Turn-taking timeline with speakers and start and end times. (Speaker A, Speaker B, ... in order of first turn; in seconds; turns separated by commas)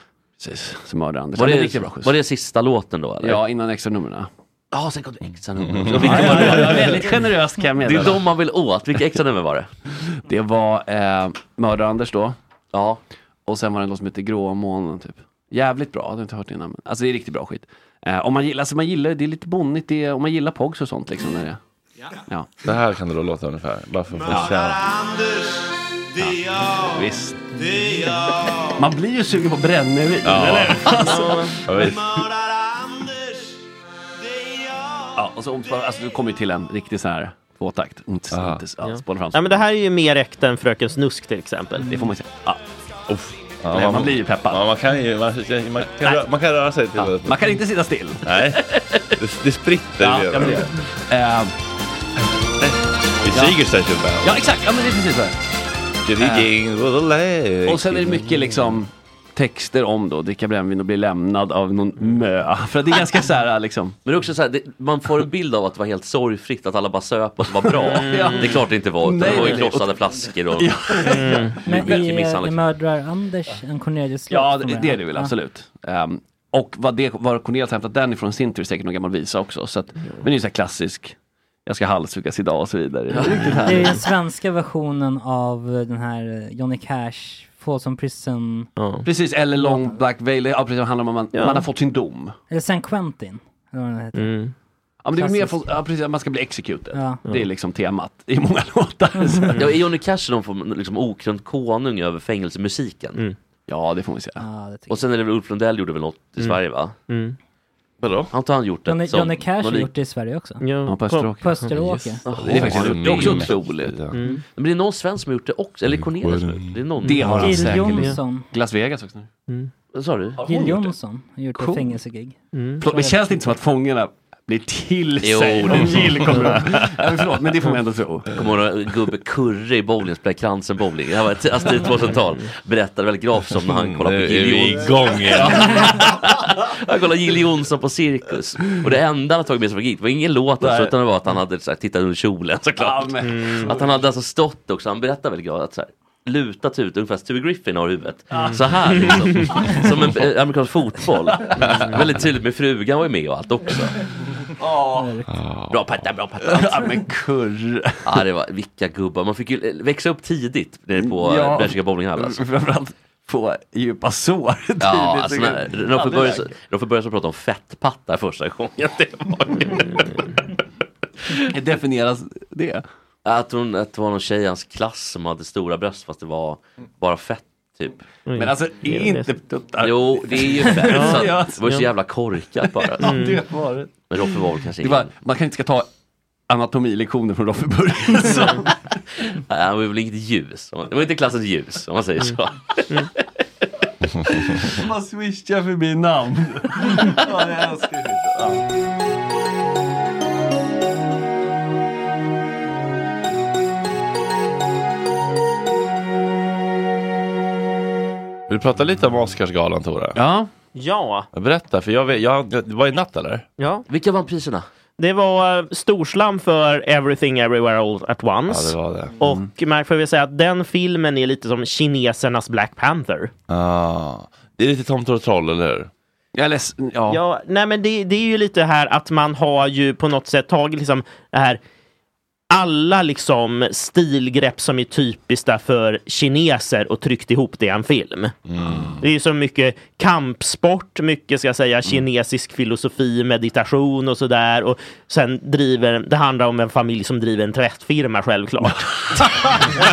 Speaker A: 0.4-2.1, Speaker B: 1.3-3.4, Speaker A: 3.2-4.3, Speaker B: 4.7-7.1, Speaker C: 5.2-6.9, Speaker A: 5.8-8.2, Speaker B: 7.8-9.7, Speaker A: 10.2-12.3, Speaker B: 12.7-13.0, Speaker A: 13.5-21.6, Speaker C: 22.6-24.9, Speaker D: 24.7-25.6, Speaker D: 26.2-26.9, Speaker A: 26.2-27.5, Speaker D: 27.6-28.6, Speaker A: 28.7-32.0, Speaker C: 30.2-32.1, Speaker E: 30.9-31.6, Speaker D: 32.2-33.5, Speaker D: 34.4-34.9, Speaker A: 35.1-39.6, Speaker C: 38.3-38.6, Speaker E: 38.8-42.0, Speaker A: 41.9-42.6, Speaker C: 43.1-47.6, Speaker A: 43.7-44.6, Speaker A: 46.9-48.2, Speaker C: 48.2-50.7, Speaker B: 48.7-49.1, Speaker A: 50.0-51.5, Speaker C: 52.6-54.5, Speaker A: 53.3-53.6, Speaker A: 54.2-55.4, Speaker C: 56.0-58.7, Speaker A: 56.2-56.5, Speaker A: 57.6-64.0, Speaker B: 64.0-70.8, Speaker A: 67.6-72.0, Speaker E: 67.8-68.6, Speaker E: 71.0-71.6, Speaker F: 71.6-75.3, Speaker B: 71.7-72.6, Speaker A: 74.3-81.1, Speaker A: 81.7-84.0, Speaker B: 83.2-83.5, Speaker F: 83.6-88.7, Speaker E: 88.8-89.1, Speaker A: 89.0-92.3, Speaker F: 89.6-90.0, Speaker E: 91.3-91.7, Speaker F: 92.5-94.3, Speaker E: 94.1-94.5, Speaker A: 95.0-99.7, Speaker F: 95.1-95.8, Speaker F: 96.9-97.2, Speaker F: 99.2-99.5, Speaker B: 99.6-103.2, Speaker A: 103.7-104.4, Speaker F: 104.4-105.0, Speaker B: 104.9-107.0, Speaker E: 106.4-107.4, Speaker B: 108.3-109.9, Speaker F: 108.8-110.7, Speaker E: 110.6-111.7, Speaker A: 110.9-113.5, Speaker F: 111.4-112.2, Speaker B: 112.2-117.6, Speaker C: 112.3-114.2, Speaker E: 114.1-114.4, Speaker C: 115.8-117.9, Speaker A: 117.0-119.3, Speaker F: 117.0-118.5, Speaker B: 119.9-120.4, Speaker A: 120.4-120.9, Speaker F: 120.4-123.4, Speaker A: 121.5-121.9, Speaker E: 122.5-122.8, Speaker A: 122.8-128.4, Speaker B: 125.2-126.5, Speaker E: 126.0-126.6, Speaker B: 128.3-153.9, Speaker C: 133.6-135.9, Speaker A: 135.3-136.0, Speaker A: 140.6-140.9, Speaker A: 142.8-143.9, Speaker E: 143.2-143.7, Speaker A: 148.3-149.9, Speaker E: 148.3-149.6, Speaker A: 151.3-151.9, Speaker E: 151.6-151.9, Speaker A: 154.6-155.1, Speaker F: 154.9-155.3, Speaker C: 155.3-156.1, Speaker B: 155.7-156.9, Speaker A: 156.4-158.2, Speaker B: 158.0-162.4, Speaker A: 161.0-166.5, Speaker B: 164.8-170.0, Speaker E: 169.9-170.2, Speaker A: 171.4-172.8, Speaker B: 173.2-178.1, Speaker E: 178.2-179.3, Speaker A: 178.3-181.8, Speaker B: 179.8-183.1, Speaker E: 180.9-181.9, Speaker A: 182.6-185.9, Speaker E: 183.0-183.4, Speaker B: 184.1-185.1, Speaker A: 186.5-188.9, Speaker E: 188.3-188.6, Speaker B: 189.3-193.0, Speaker A: 194.5-198.6, Speaker C: 208.5-210.2, Speaker A: 210.1-210.5, Speaker E: 210.7-211.3, Speaker C: 211.3-213.4, Speaker E: 213.6-213.8, Speaker B: 213.9-214.7, Speaker E: 215.0-223.3, Speaker C: 218.5-219.2, Speaker A: 219.2-219.5, Speaker C: 223.5-225.9, Speaker A: 226.3-227.2, Speaker E: 227.1-231.6, Speaker E: 232.5-238.3, Speaker C: 238.5-239.0, Speaker E: 239.0-248.9